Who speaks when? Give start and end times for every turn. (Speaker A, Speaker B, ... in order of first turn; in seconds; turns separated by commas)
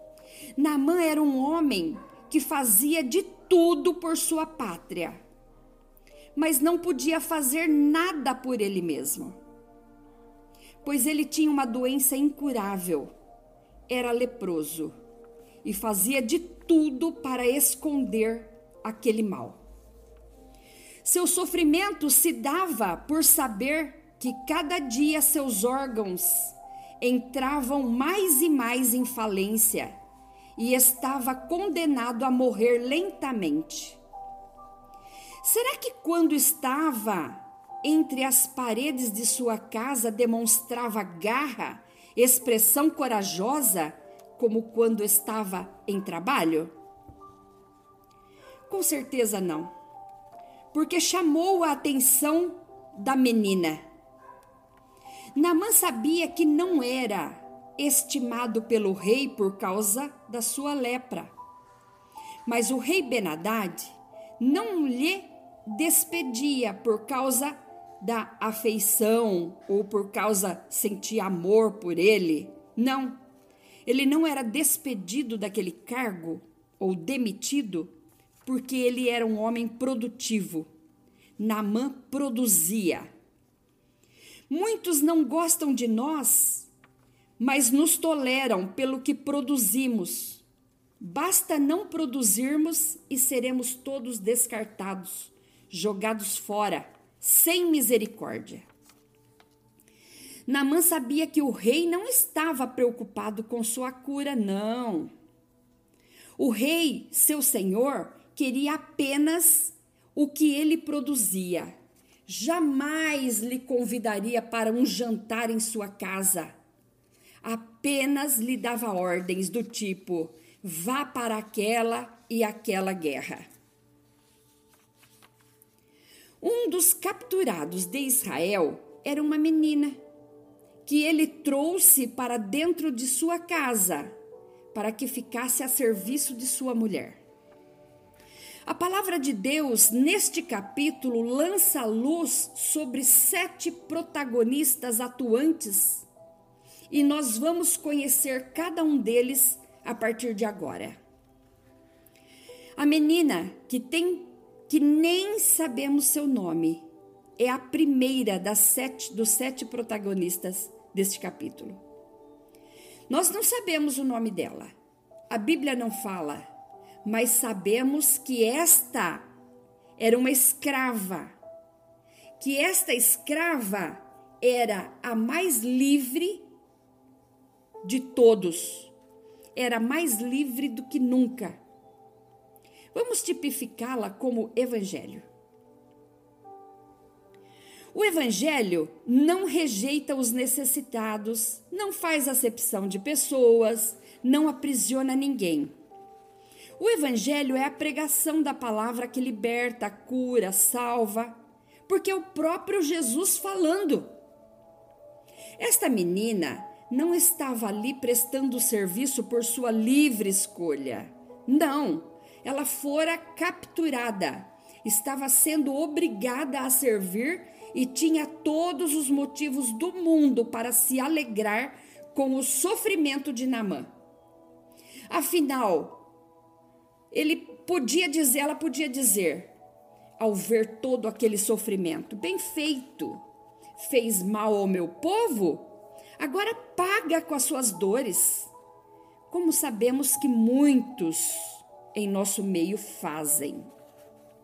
Speaker A: 0.6-5.2, Speaker A: 6.3-9.4, Speaker A: 10.8-13.1, Speaker A: 13.9-14.9, Speaker A: 15.6-19.6, Speaker A: 21.0-29.9, Speaker A: 30.6-34.0, Speaker A: 35.4-46.7, Speaker A: 48.7-49.7, Speaker A: 50.7-53.8, Speaker A: 55.3-61.3, Speaker A: 62.5-73.2, Speaker A: 73.8-77.9, Speaker A: 78.4-80.7, Speaker A: 81.4-83.1, Speaker A: 84.5-86.7, Speaker A: 87.4-90.4, Speaker A: 91.0-98.7, Speaker A: 100.5-105.1, Speaker A: 106.4-111.7, Speaker A: 112.3-116.5, Speaker A: 117.4-123.5, Speaker A: 126.4-130.0, Speaker A: 130.8-134.1, Speaker A: 134.7-137.2, Speaker A: 138.7-146.1, Speaker A: 146.9-151.0, Speaker A: 152.8-156.8, Speaker A: 157.4-161.8, Speaker A: 163.1-164.7, Speaker A: 165.3-166.4, Speaker A: 167.0-169.3, Speaker A: 170.0-171.3, Speaker A: 172.4-176.5, Speaker A: 177.8-178.9, Speaker A: 179.5-181.6, Speaker A: 182.9-185.3, Speaker A: 187.9-195.7, Speaker A: 196.8-204.1, Speaker A: 205.6-223.9, Speaker A: 225.1-226.0, Speaker A: 227.1-229.5, Speaker A: 230.2-233.2, Speaker A: 233.8-238.5, Speaker A: 239.3-243.7